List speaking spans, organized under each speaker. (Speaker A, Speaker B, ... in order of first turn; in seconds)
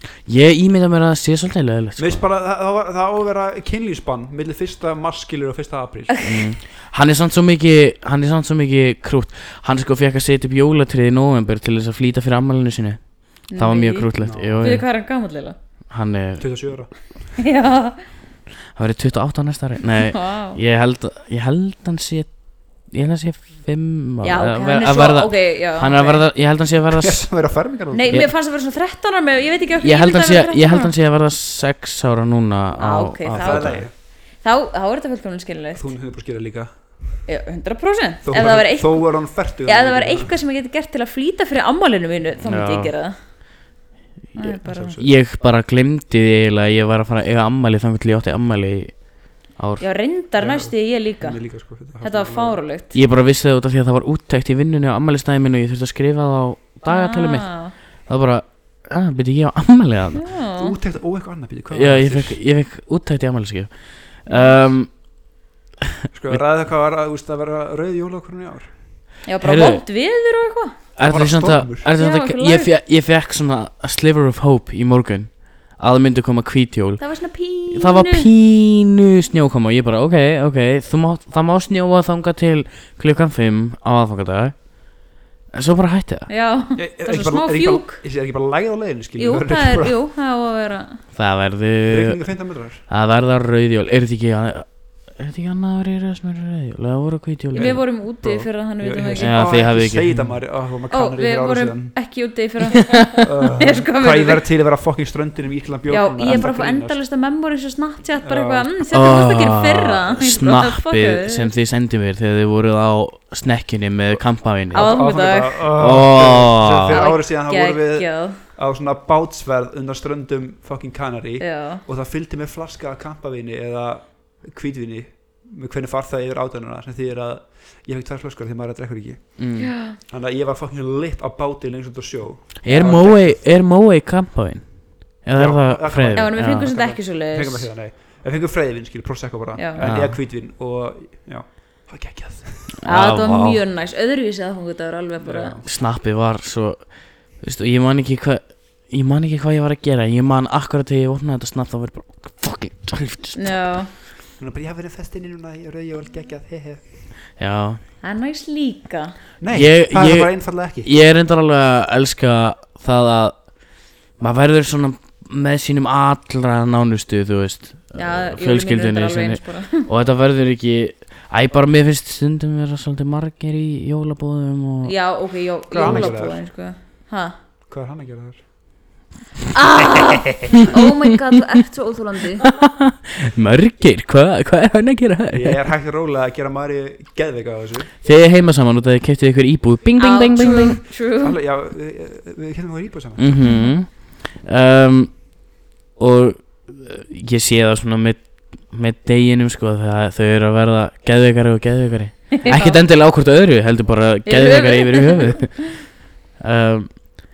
Speaker A: 0.2-2.2, 6.2-14.9, 15.9-16.5, 18.7-27.3, 29.8-33.9, 42.4-42.9, 45.0-49.8, 52.9-60.2, 61.7-65.0, 69.4-69.8, 71.0-77.0, 77.7-86.3, 91.1-92.2, 92.9-97.8, 99.2-100.4, 108.9-114.9, 115.7-117.1, 129.4-129.7, 132.6-136.7, 139.8-140.2, 142.8-143.6, 145.6-153.6, 157.4-157.8, 159.5-163.4, 164.2-174.9, 175.8-176.1, 182.4-185.6, 188.0-190.8, 193.2-195.4, 196.0-205.8, 206.4-206.9
Speaker B: 2.0-6.2, 14.2-14.6, 16.4-16.9, 26.9-28.2, 33.4-33.9, 35.7-36.7, 38.2-40.3, 44.4-45.1, 50.4-52.6, 60.6-62.4, 66.1-68.7, 71.0-71.9, 86.8-89.9, 91.9-92.8, 97.5-101.9, 103.2-107.0, 108.2-108.7, 114.7-129.4, 130.0-133.4, 135.3-142.7, 145.2-145.6, 154.4-156.8, 159.4-160.9, 175.7-176.4, 177.7-178.4, 185.3-187.9, 190.4-193.4
Speaker C: 13.5-15.6, 17.4-18.0, 20.0-20.6, 24.2-26.2, 27.9-30.9, 32.8-33.9, 34.4-35.9, 37.2-39.1, 39.6-43.1, 44.3-44.9, 49.8-51.4, 52.0-52.9, 56.9-57.7, 60.1-60.8, 64.3-64.5, 69.2-70.8, 72.0-72.7, 77.0-78.3, 86.3-88.0, 89.2-91.0, 97.5-99.4, 100.9-104.4, 105.9-111.5, 114.7-115.7, 116.9-118.4, 121.4-121.8, 129.6-130.0, 136.2-137.7, 139.6-139.8, 142.8-145.6, 153.4-153.9, 158.0-159.1, 167.9-169.9, 174.8-177.3, 179.5-182.5, 190.0-191.4, 193.4-193.7, 202.3-202.8, 204.2-205.5